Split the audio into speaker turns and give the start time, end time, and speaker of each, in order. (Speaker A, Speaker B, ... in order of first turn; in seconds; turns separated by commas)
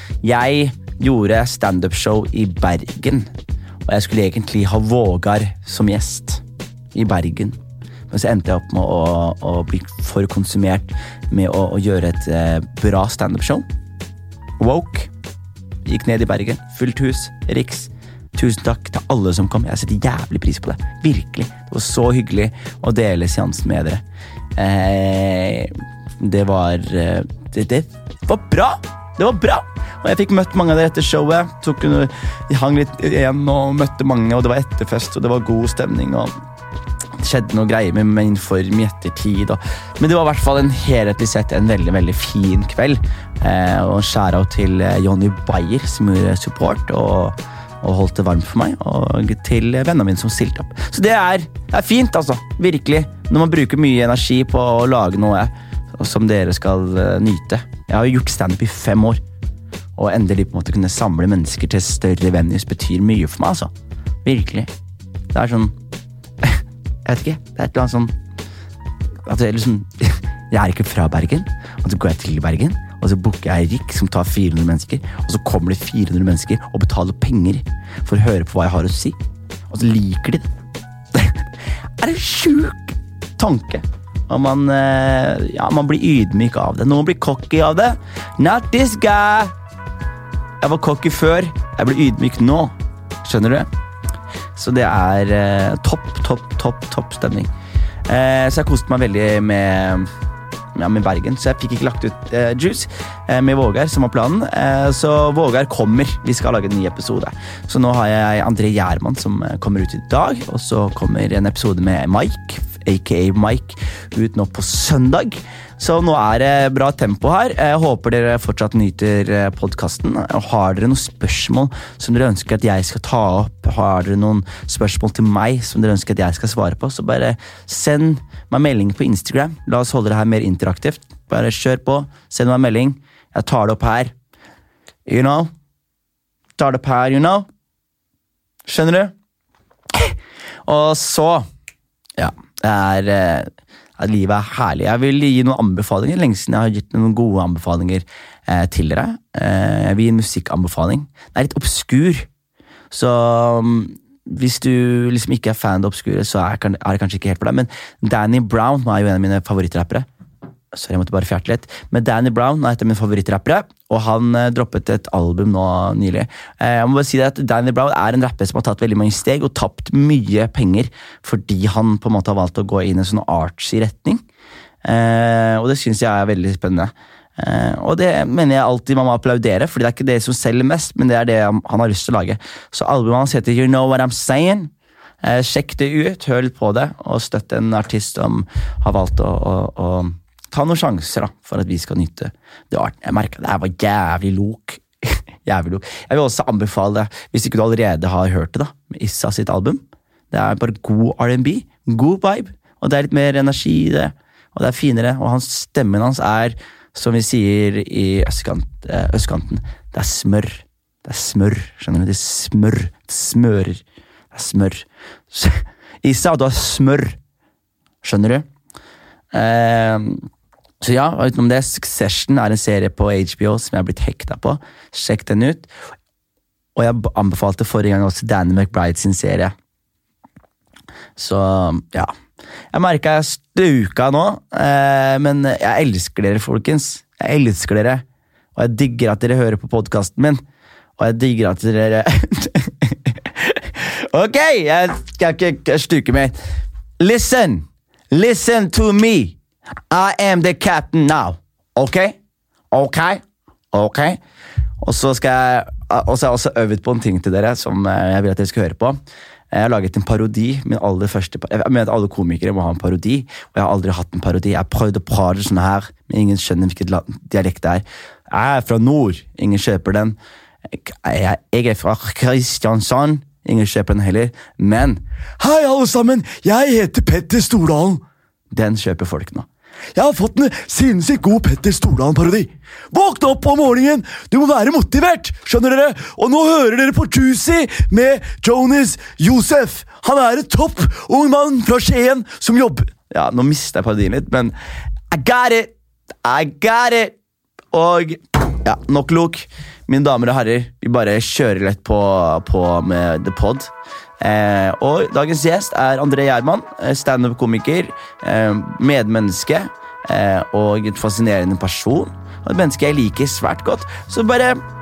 Speaker A: 0.2-3.3, Speaker A: 3.9-6.4, Speaker A: 6.9-7.6, Speaker A: 8.1-13.7, Speaker A: 14.6-15.1, Speaker A: 15.8-24.0, Speaker A: 24.5-36.3, Speaker A: 37.2-59.2, Speaker A: 60.0-63.7, Speaker A: 64.2-64.7, Speaker A: 65.3-65.7, Speaker A: 66.4-68.1, Speaker A: 69.2-79.2, Speaker A: 79.7-80.5, Speaker A: 81.1-81.4, Speaker A: 82.0-89.5, Speaker A: 90.6-93.7, Speaker A: 94.5-97.5, Speaker A: 98.1-100.1, Speaker A: 100.7-134.1, Speaker A: 135.1-135.5, Speaker A: 136.6-137.5, Speaker A: 138.7-139.1, Speaker A: 140.7-141.5, Speaker A: 142.2-152.3, Speaker A: 152.9-160.1, Speaker A: 160.7-174.2, Speaker A: 174.8-184.7, Speaker A: 185.2-217.2, Speaker A: 218.0-218.4, Speaker A: 219.3-220.3, Speaker A: 220.8-225.7, Speaker A: 226.7-229.5, Speaker A: 231.2-232.1, Speaker A: 232.7-238.0, Speaker A: 238.6-240.4, Speaker A: 241.0-246.3, Speaker A: 247.0-249.4, Speaker A: 249.9-252.2, Speaker A: 252.7-254.2, Speaker A: 254.8-259.0, Speaker A: 259.5-270.2, Speaker A: 270.7-294.5, Speaker A: 295.1-295.7, Speaker A: 296.2-297.1, Speaker A: 297.7-314.6